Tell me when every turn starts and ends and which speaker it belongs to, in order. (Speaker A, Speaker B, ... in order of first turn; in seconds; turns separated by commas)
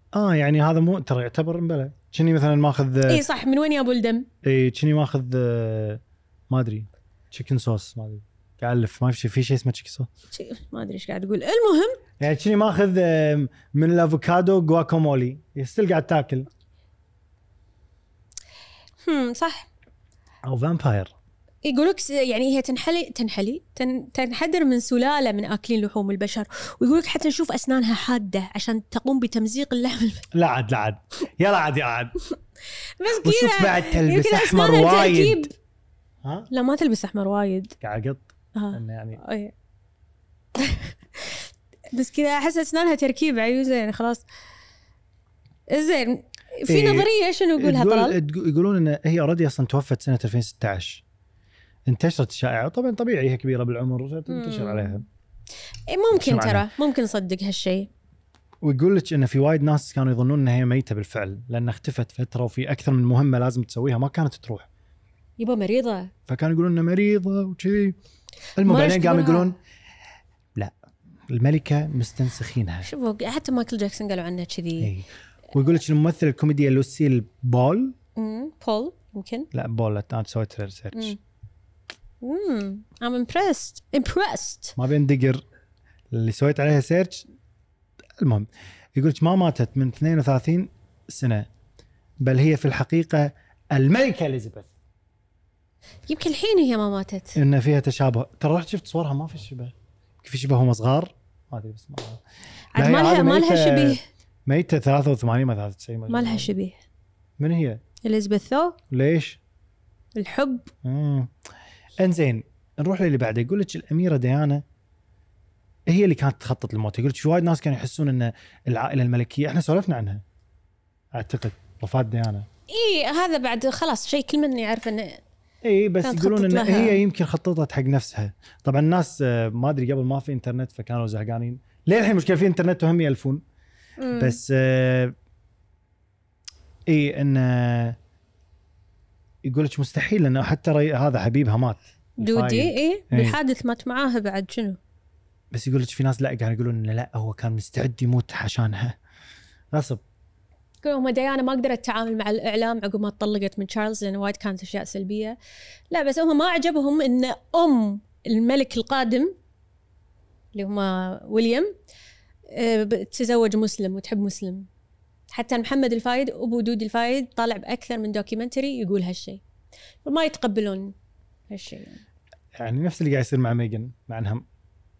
Speaker A: 0.1-3.3, Speaker B: 3.1-4.3, Speaker A: 4.4-10.1, Speaker B: 10.3-12.0, Speaker A: 12.2-16.5, Speaker B: 19.0-19.7, Speaker A: 20.4-21.1, Speaker B: 21.6-30.3, Speaker A: 30.3-32.1, Speaker B: 33.0-35.5, Speaker A: 33.1-35.5, Speaker A: 36.2-36.5, Speaker B: 36.5-37.7, Speaker A: 37.8-39.2, Speaker B: 38.6-39.5, Speaker B: 40.6-41.4, Speaker B: 41.9-44.2, Speaker B: 45.7-48.2, Speaker A: 46.7-51.0, Speaker A: 51.9-55.0, Speaker B: 54.3-55.0, Speaker B: 55.9-57.9, Speaker A: 56.2-56.7, Speaker A: 58.6-64.7, Speaker B: 65.4-66.1, Speaker A: 66.3-68.0, Speaker A: 68.6-69.6, Speaker B: 68.6-69.5, Speaker A: 71.3-72.9, Speaker B: 72.8-74.9, Speaker A: 74.8-78.0, Speaker B: 78.2-79.5, Speaker A: 79.5-81.2, Speaker B: 82.2-84.8, Speaker A: 84.8-85.4, Speaker A: 86.1-87.2, Speaker A: 88.2-91.5, Speaker A: 92.2-94.7, Speaker B: 96.1-97.4, Speaker A: 97.3-102.2, Speaker B: 102.8-104.0, Speaker A: 102.8-106.5, Speaker B: 106.1-106.8, Speaker A: 107.4-107.8, Speaker B: 108.0-108.8, Speaker A: 108.9-109.4, Speaker B: 110.2-110.7, Speaker A: 110.8-111.3, Speaker A: 112.0-114.6, Speaker A: 115.9-120.2, Speaker A: 121.1-122.5, Speaker B: 122.7-125.2, Speaker A: 125.6-133.4, Speaker B: 126.0-127.0, Speaker B: 134.0-134.4, Speaker A: 134.2-135.1, Speaker A: 136.9-138.0, Speaker A: 139.4-143.4, Speaker B: 142.2-144.8, Speaker A: 145.5-149.0, Speaker A: 149.7-150.0, Speaker B: 150.8-155.4, Speaker B: 155.9-159.3, Speaker B: 160.6-161.7, Speaker B: 162.5-164.7, Speaker B: 165.3-169.4, Speaker B: 170.1-170.9, Speaker B: 171.5-172.0, Speaker A: 172.6-174.4